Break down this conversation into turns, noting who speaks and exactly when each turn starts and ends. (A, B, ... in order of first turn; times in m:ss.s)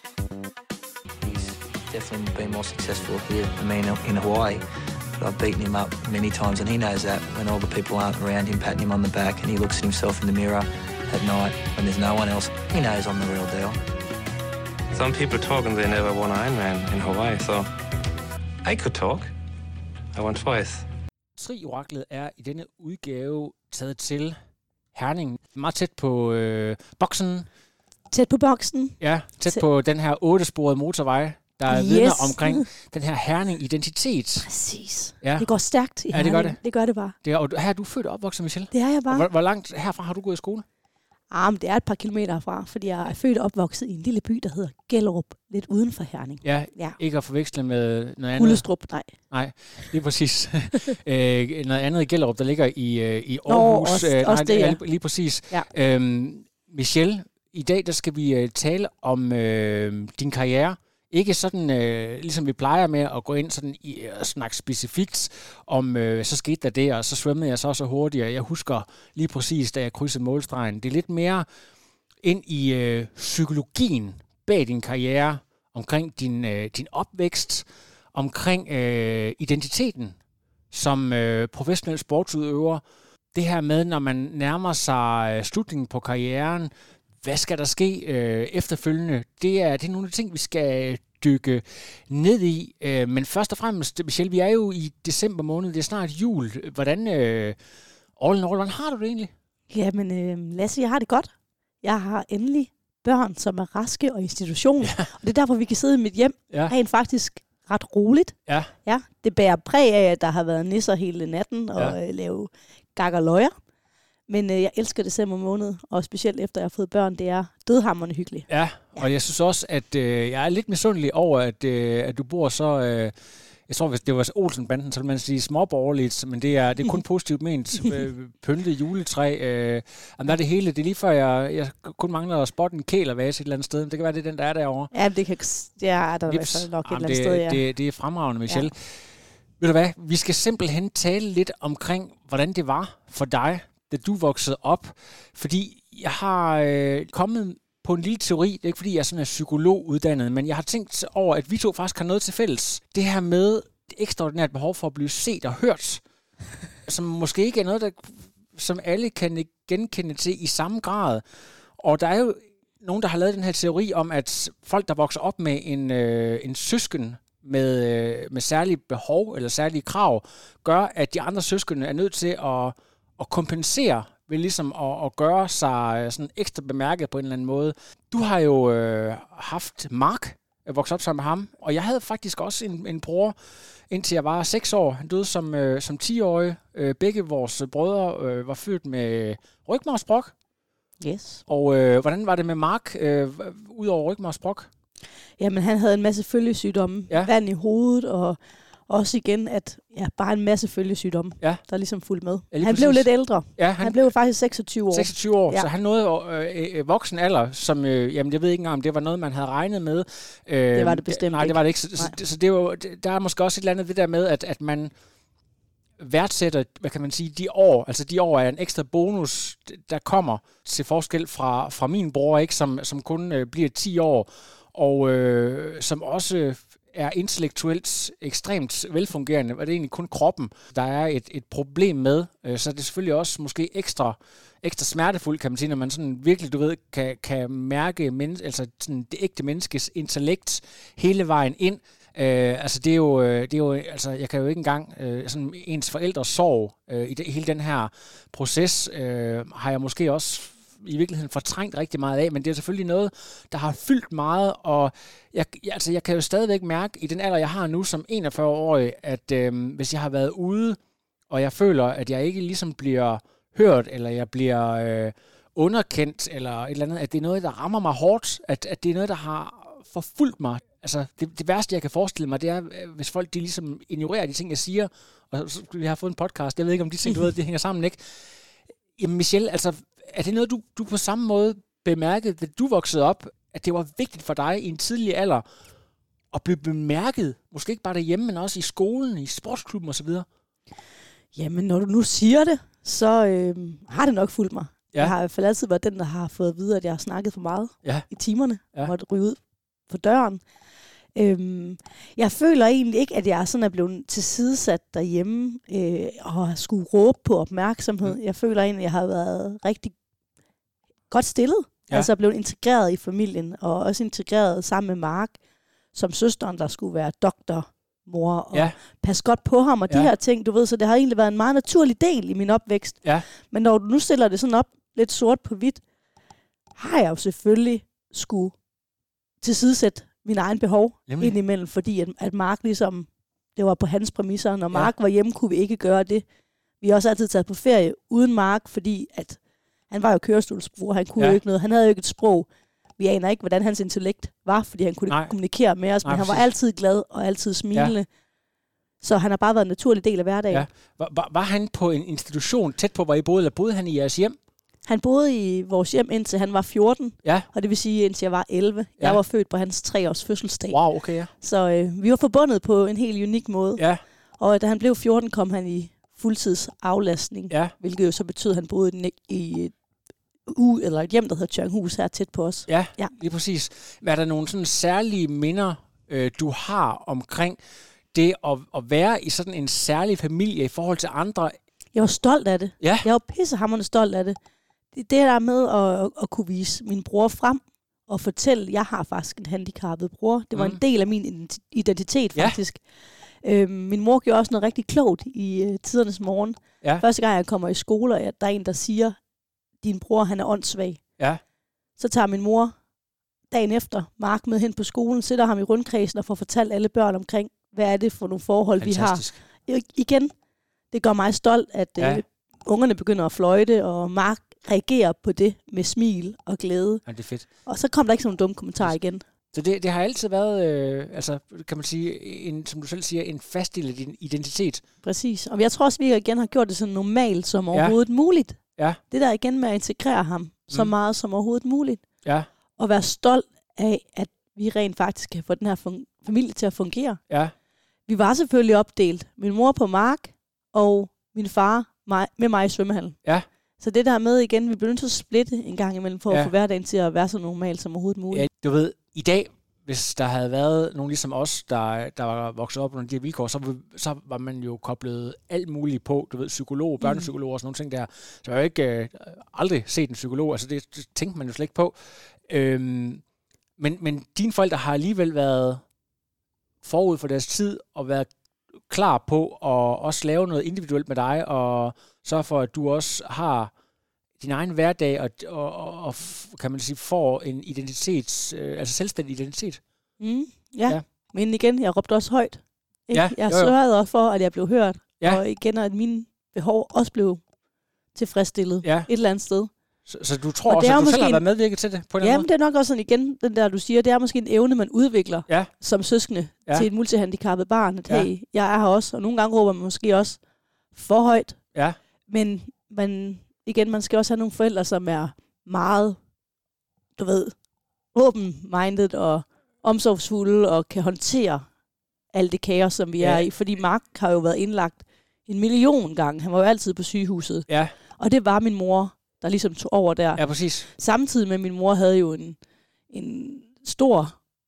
0:01.2-0:04.6 A
0:05.1-0:13.8 A
0:14.9-0:17.7 B
0:18.6-0:19.3 B
0:20.1-0:20.9 B
0:21.4-0:24.4 C
0:24.9-0:27.5 C
0:28.1-0:29.6 D
0:29.0-0:34.5 C
0:31.7-0:32.7 D
0:34.4-0:37.2 D
0:35.2-0:35.5 C
0:36.1-0:36.6 C
0:37.2-0:40.6 C
0:38.7-0:39.3 D
0:41.3-0:47.0 D
0:46.4-0:48.6 C
0:48.4-0:49.1 D
0:49.3-1:11.4 C
0:53.5-0:54.8 D
1:12.2-1:20.2 C
1:20.7-1:22.8 C
1:23.4-1:37.6 C
1:38.2-1:39.3 C
1:39.7-1:53.5 D
1:54.3-1:59.1 D
1:58.5-2:03.1 C
2:03.7-2:14.9 C
2:14.9-2:17.6 D
2:16.3-2:19.0 C
2:19.6-2:36.0 C
2:36.9-2:41.2 C
2:41.8-3:03.4 C
3:03.9-3:10.3 C
3:11.0-3:11.4 D
3:11.5-3:14.7 C
3:15.4-3:25.7 D
3:22.5-3:24.0 C
3:24.9-3:34.9 C
3:30.7-3:32.2 D
3:36.0-4:20.8 C
4:21.3-4:38.0 C
4:39.0-4:45.4 C
4:46.3-4:50.3 C
4:51.4-5:00.4 D
5:01.2-5:09.9 D
5:11.1-5:15.4 D
5:15.9-5:25.8 D
5:26.8-5:28.5 D
5:29.4-5:36.2 D
5:31.1-5:31.3 C
5:36.8-5:39.4 D
5:39.9-5:48.1 D
5:46.0-5:46.5 C
5:49.0-5:50.7 D
5:50.5-5:54.4 C
5:54.9-6:00.8 D
6:00.7-6:01.3 C
6:01.4-6:03.8 D
6:04.4-6:09.7 D
6:10.5-6:13.1 D
6:12.7-6:17.6 C
6:18.1-6:21.6 C
6:21.9-6:24.4 D
6:22.8-6:23.1 C
6:24.9-6:32.8 D
6:30.6-6:30.8 C
6:33.4-6:39.2 D
6:39.8-6:41.0 D
6:42.0-6:42.8 D
6:43.5-6:50.3 D
6:48.8-6:49.4 C
6:50.9-6:57.0 D
6:52.0-6:52.2 C
6:57.1-6:57.5 C
6:57.7-6:59.2 D
6:59.5-7:04.8 C
7:05.0-7:08.6 D
7:09.1-7:12.0 D
7:12.8-7:17.2 D
7:18.1-7:23.2 D
7:23.8-7:28.5 D
7:28.3-7:42.0 C
7:37.0-7:37.3 D
7:42.5-7:43.2 C
7:43.8-7:45.8 C
7:46.8-7:48.3 C
7:48.9-7:53.7 C
7:54.4-7:59.8 C
8:00.2-8:07.4 D
8:03.1-8:03.7 C
8:08.2-8:09.7 D
8:08.8-8:09.1 C
8:10.1-8:12.5 C
8:10.7-8:11.4 D
8:12.2-8:20.4 D
8:21.0-8:21.6 D
8:22.3-8:26.2 D
8:27.2-8:27.6 D
8:28.1-8:31.7 D
8:32.3-8:42.6 D
8:40.4-8:40.9 C
8:43.1-8:44.4 D